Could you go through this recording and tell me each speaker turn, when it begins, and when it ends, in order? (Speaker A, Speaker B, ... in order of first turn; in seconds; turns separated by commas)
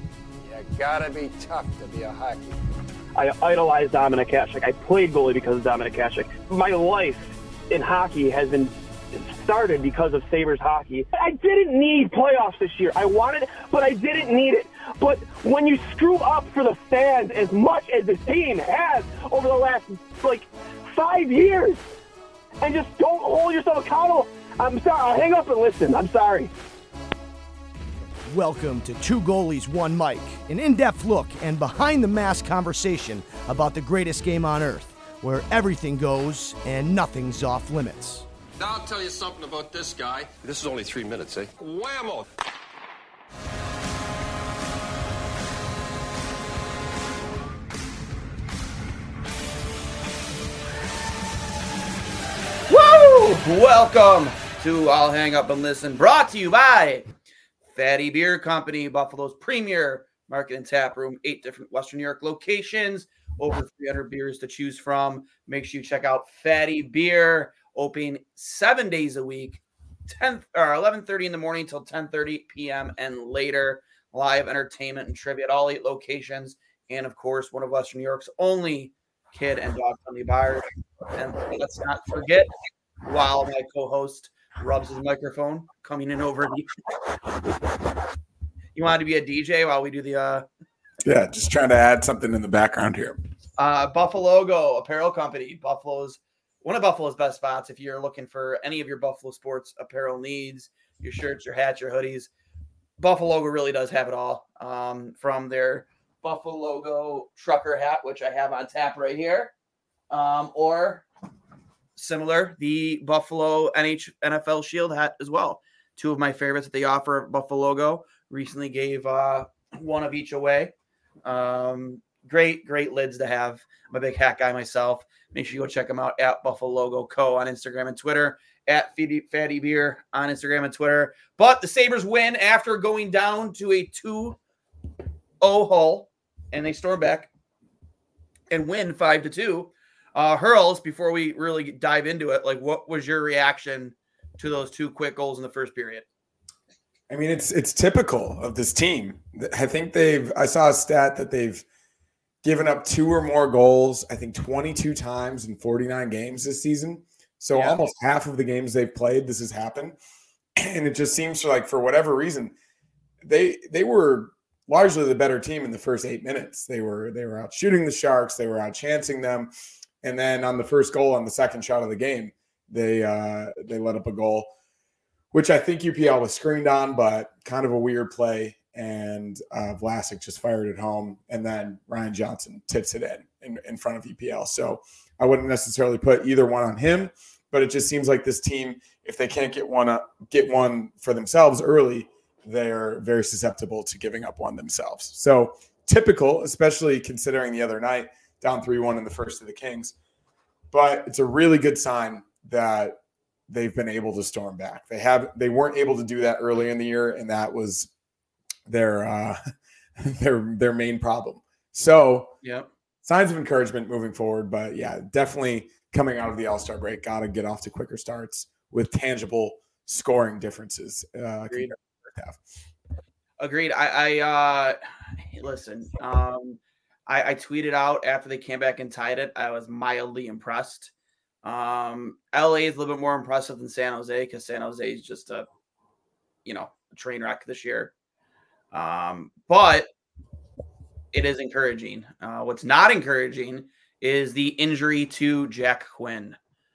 Speaker A: 0.4-2.5, Speaker B: 3.1-21.8, Speaker B: 22.6-26.5, Speaker C: 28.3-38.2, Speaker A: 38.6-42.2, Speaker D: 52.7-57.0, Speaker D: 57.7-82.5, Speaker D: 83.0-86.7, Speaker D: 88.7-90.5, Speaker E: 91.0-93.2, Speaker D: 93.6-102.3, Speaker D: 103.0-109.5, Speaker D: 110.1-111.0, Speaker D: 112.0-120.7, Speaker D: 121.2-134.4, Speaker D: 135.4-137.3, Speaker D: 138.5-146.0, Speaker E: 147.1-151.6, Speaker E: 152.4-160.0, Speaker D: 157.5-157.8, Speaker E: 160.6-162.5, Speaker E: 163.2-169.5, Speaker E: 170.0-174.5, Speaker E: 175.3-199.9, Speaker E: 200.7-207.9, Speaker E: 208.7-209.4, Speaker E: 210.0-212.3, Speaker D: 212.4-212.7, Speaker E: 213.0-222.4, Speaker D: 223.4-224.8, Speaker D: 225.3-230.9, Speaker D: 231.4-235.5, Speaker D: 236.4-237.9, Speaker D: 238.7-239.9, Speaker D: 241.1-246.4